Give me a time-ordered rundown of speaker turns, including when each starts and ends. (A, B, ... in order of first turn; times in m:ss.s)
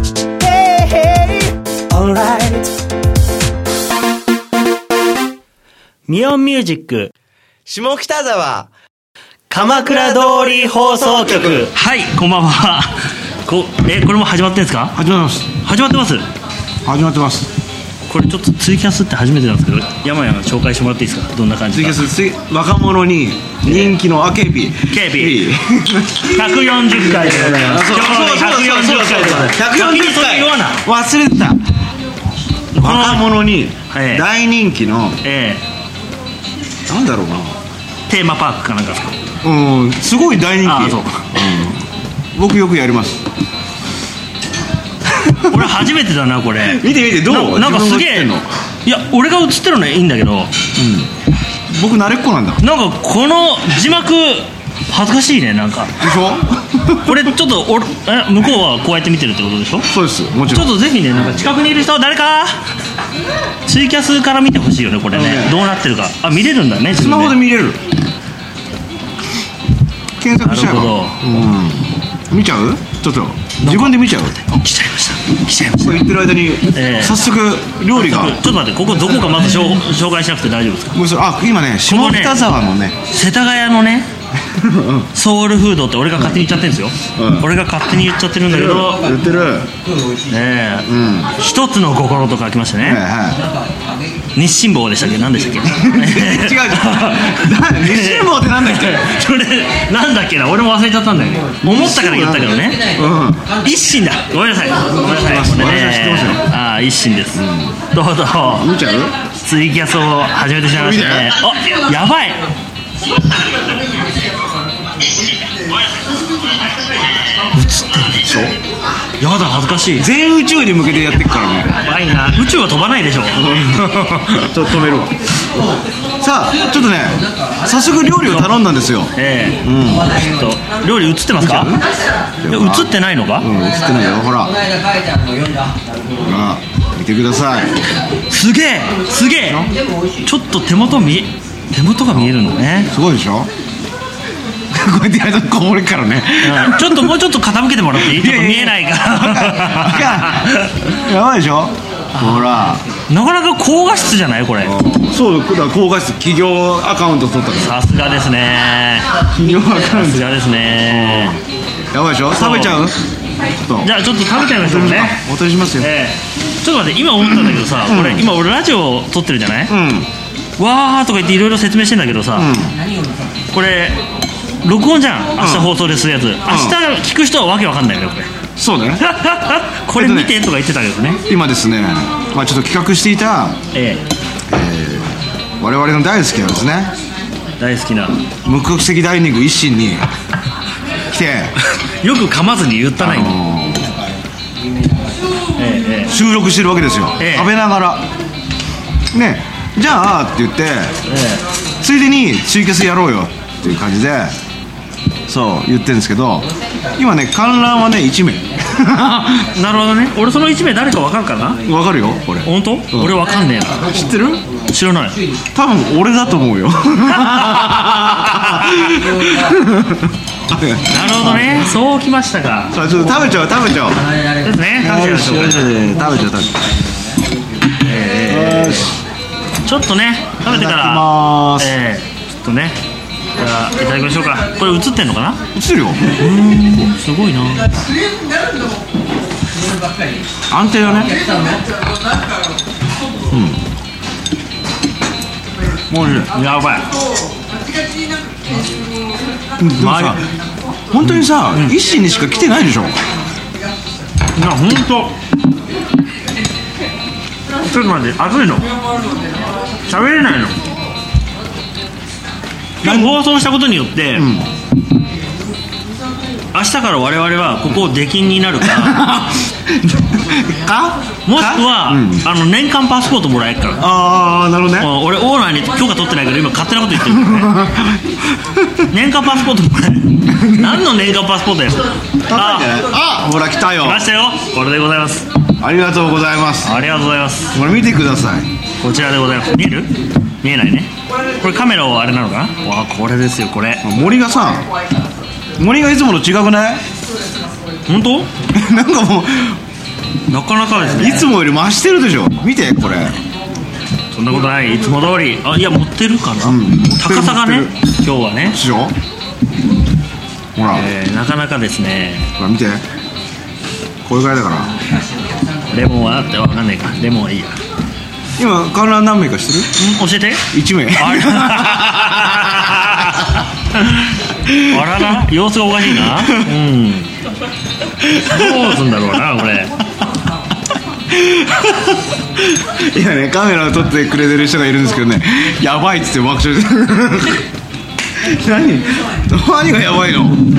0:00.6-0:01.0 A
0:01.9-0:02.7 A
0:06.1-0:07.1 A
0:07.8-0:08.6 A
0:09.5-0:12.9 A
0:13.4-0:15.0 A
0:14.9-0:15.5 B
0:15.6-0:16.2 A
0:16.8-0:17.5 B
0:18.1-0:22.0 A
0:21.7-0:31.6 B
0:23.6-0:23.9 A
0:24.9-0:25.4 A
0:26.2-0:30.8 A
0:32.7-0:33.4 A
0:32.8-0:35.2 B
0:33.9-0:34.2 A
0:35.2-0:35.6 A
0:36.9-0:37.6 B
0:38.1-0:39.1 A
0:39.4-0:43.2 B
0:40.6-0:41.2 A
0:45.1-0:45.8 B
0:45.4-0:48.3 A
0:46.6-0:48.5 B
0:48.8-0:50.5 A
0:50.8-0:51.1 B
0:51.7-0:52.6 B
0:52.6-0:55.9 A
0:56.0-0:57.2 B
0:57.0-0:59.9 A
0:59.9-1:01.5 B
1:00.5-1:02.6 A
1:03.6-1:07.4 A
1:05.1-1:05.5 B
1:06.9-1:07.8 B
1:10.2-1:14.4 B
1:10.4-1:11.2 A
1:13.6-1:16.1 A
1:15.8-1:18.4 B
1:16.7-1:17.2 A
1:17.9-1:21.0 A
1:20.9-1:23.0 B
1:21.9-1:22.4 A
1:23.1-1:24.1 A
1:24.4-1:25.1 B
1:25.1-1:29.0 A
1:26.2-1:26.5 B
1:27.1-1:27.5 B
1:28.5-1:29.7 B
1:28.6-1:30.8 C
1:30.3-1:33.0 A
1:30.8-1:31.3 B
1:32.8-1:33.4 B
1:33.2-1:34.4 C
1:34.3-1:42.9 A
1:35.0-1:35.6 C
1:35.7-1:39.1 B
1:41.3-1:43.9 C
1:41.6-1:43.4 B
1:43.6-1:48.7 A
1:45.0-1:46.4 B
1:47.3-1:47.8 B
1:48.6-1:49.1 B
1:49.4-1:52.4 A
1:50.7-1:51.4 B
1:57.5-1:58.2 A
1:58.2-1:58.5 B
1:59.2-2:00.1 A
2:00.0-2:01.7 B
2:01.8-2:04.5 A
2:03.3-2:05.2 B
2:05.5-2:05.9 C
2:06.2-2:10.2 B
2:06.5-2:08.2 C
2:08.2-2:08.6 A
2:09.1-2:09.6 A
2:09.7-2:10.6 C
2:10.1-2:11.8 A
2:11.4-2:11.9 B
2:12.4-2:14.5 B
2:12.5-2:13.5 A
2:13.4-2:16.4 C
2:16.2-2:17.8 B
2:18.3-2:19.7 A
2:19.6-2:20.3 C
2:20.2-2:22.9 A
2:22.9-2:23.5 B
2:24.7-2:27.1 B
2:26.4-2:30.7 A
2:28.0-2:32.8 B
2:32.1-2:32.5 A
2:33.1-2:34.7 A
2:34.6-2:37.8 B
2:37.6-2:41.4 A
2:39.3-2:41.4 B
2:41.9-2:43.0 B
2:42.3-2:42.9 A
2:43.6-2:43.9 B
2:43.8-2:45.2 A
2:44.6-2:45.9 B
2:45.8-2:49.7 A
2:47.9-2:48.3 B
2:49.7-2:50.1 B
2:50.6-2:52.5 A
2:52.4-2:52.7 B
2:52.6-2:53.6 C
2:53.5-2:54.0 A
2:54.6-2:58.3 A
2:55.4-2:55.7 B
2:56.5-2:56.8 B
2:58.6-2:59.0 B
2:59.0-3:01.2 A
2:59.9-3:00.4 B
3:01.3-3:03.6 B
3:03.7-3:04.0 A
3:04.5-3:06.9 B
3:07.6-3:08.2 A
3:08.4-3:10.1 B
3:11.1-3:11.5 B
3:12.0-3:13.4 A
3:13.0-3:13.9 B
3:13.6-3:15.4 C
3:15.6-3:16.1 A
3:16.1-3:18.0 B
3:17.2-3:17.5 A
3:19.1-3:20.9 B
3:21.1-3:21.4 A
3:21.8-3:24.4 B
3:25.3-3:29.5 B
3:26.4-3:27.0 C
3:28.6-3:30.0 C
3:29.5-3:31.6 A
3:31.6-3:33.2 B
3:31.7-3:32.3 C
3:32.4-3:35.2 A
3:33.1-3:35.5 C
3:33.9-3:34.4 B
3:35.5-3:41.7 B
3:38.4-3:38.7 A
3:38.7-3:39.8 C
3:40.9-3:42.7 A
3:42.7-3:44.0 B
3:42.9-3:45.0 C
3:44.4-3:45.8 A
3:44.8-3:46.5 B
3:45.6-3:47.8 C
3:47.8-3:48.9 A
3:48.2-3:49.0 B
3:49.6-3:52.8 A
3:50.4-3:51.7 B
3:53.4-3:55.4 A
3:55.5-3:56.2 B
3:56.1-3:57.7 A
3:59.4-4:01.7 C
4:00.5-4:01.1 B
4:03.3-4:03.6 B
4:05.9-4:06.3 B
4:06.3-4:06.9 A
4:09.6-4:10.2 B
4:09.8-4:10.2 A
4:10.9-4:13.0 B
4:11.0-4:11.8 A
4:14.3-4:15.1 A
4:17.6-4:18.7 A
4:19.8-4:20.6 A
4:22.8-4:24.2 A
4:22.8-4:23.2 B
4:24.2-4:24.4 B
4:26.5-4:29.0 A
4:28.6-4:32.2 B
4:31.2-4:33.8 A
4:33.8-4:34.9 B
4:34.8-4:37.6 A
4:37.1-4:38.9 B
4:38.9-4:42.8 A
4:40.3-4:40.8 B
4:42.2-4:44.1 B
4:43.8-4:45.2 A
4:45.6-4:46.7 B
4:46.6-4:47.5 A
4:47.5-4:48.5 B
4:48.8-4:49.9 A
4:50.4-4:53.8 A
4:53.8-4:54.6 B
4:55.6-4:56.8 B
4:57.9-4:58.3 A
4:58.5-4:59.6 B
5:00.3-5:01.3 A
5:00.9-5:03.2 B
5:04.1-5:08.6 A
5:06.4-5:07.7 B
5:08.5-5:09.0 B
5:10.6-5:10.9 B
5:10.7-5:12.3 A
5:12.4-5:12.8 B
5:14.0-5:14.7 B
5:14.6-5:16.3 C
5:15.7-5:17.6 A
5:18.4-5:19.8 B
5:19.8-5:24.1 A
5:20.5-5:23.0 B
5:24.4-5:24.9 B
5:24.6-5:27.1 A
5:26.0-5:26.5 B
5:28.0-5:28.7 B
5:28.2-5:29.7 A
5:31.1-5:37.4 B
5:38.2-5:40.4 B